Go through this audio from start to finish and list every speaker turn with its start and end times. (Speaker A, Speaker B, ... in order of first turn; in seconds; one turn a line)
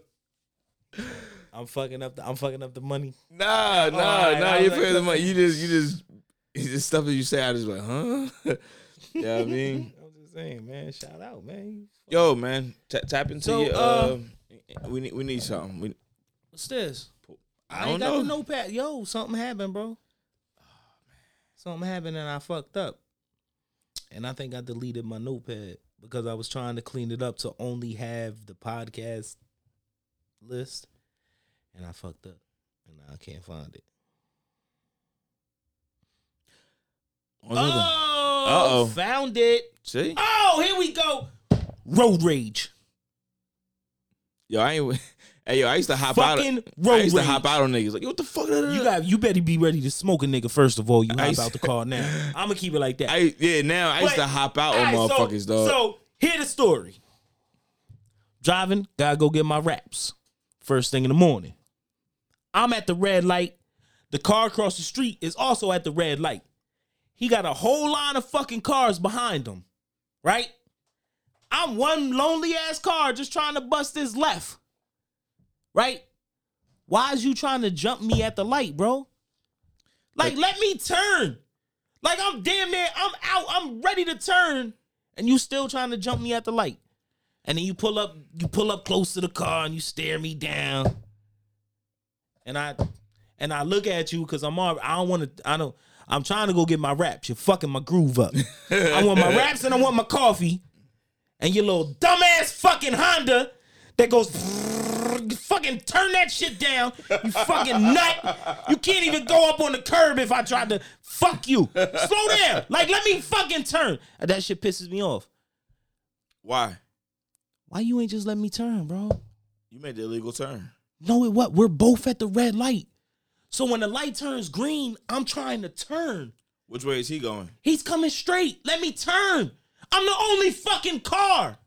Speaker A: 1.5-3.1
Speaker B: 3.3-8.6
Speaker A: 3.7-5.4
Speaker B: 9.2-9.9
Speaker A: 9.2-12.3
Speaker B: 12.1-15.9
Speaker A: 13.4-14.2
Speaker A: 16.5-17.1
Speaker B: 17.3-18.4
Speaker A: 17.7-20.0
Speaker A: 21.6-23.0
Speaker A: 24.1-29.4
Speaker A: 30.4-30.9
Speaker A: 31.7-33.8
Speaker B: 37.4-39.0
Speaker A: 37.5-41.3
Speaker B: 39.8-40.2
Speaker A: 41.8-42.7
Speaker B: 44.5-48.9
Speaker A: 46.1-47.6
Speaker A: 48.7-53.1
Speaker B: 51.1-52.3
Speaker B: 53.1-55.8
Speaker A: 54.0-57.0
Speaker A: 58.4-61.5
Speaker A: 62.5-63.6
Speaker A: 64.1-66.4
Speaker A: 67.2-69.6
Speaker A: 70.2-70.5
Speaker A: 71.5-74.6
Speaker A: 75.7-76.0
Speaker A: 76.9-79.1
Speaker A: 80.2-81.4
Speaker A: 82.0-86.8
Speaker A: 87.4-91.0
Speaker A: 92.4-92.8
Speaker A: 93.4-100.6
Speaker B: 98.5-99.5
Speaker A: 101.4-115.3
Speaker B: 107.3-108.7
Speaker B: 111.8-112.3
Speaker B: 116.4-116.8
Speaker A: 117.7-119.2
Speaker B: 119.7-120.7
Speaker A: 121.0-122.9
Speaker A: 123.5-126.3
Speaker B: 126.7-127.5
Speaker A: 127.6-131.6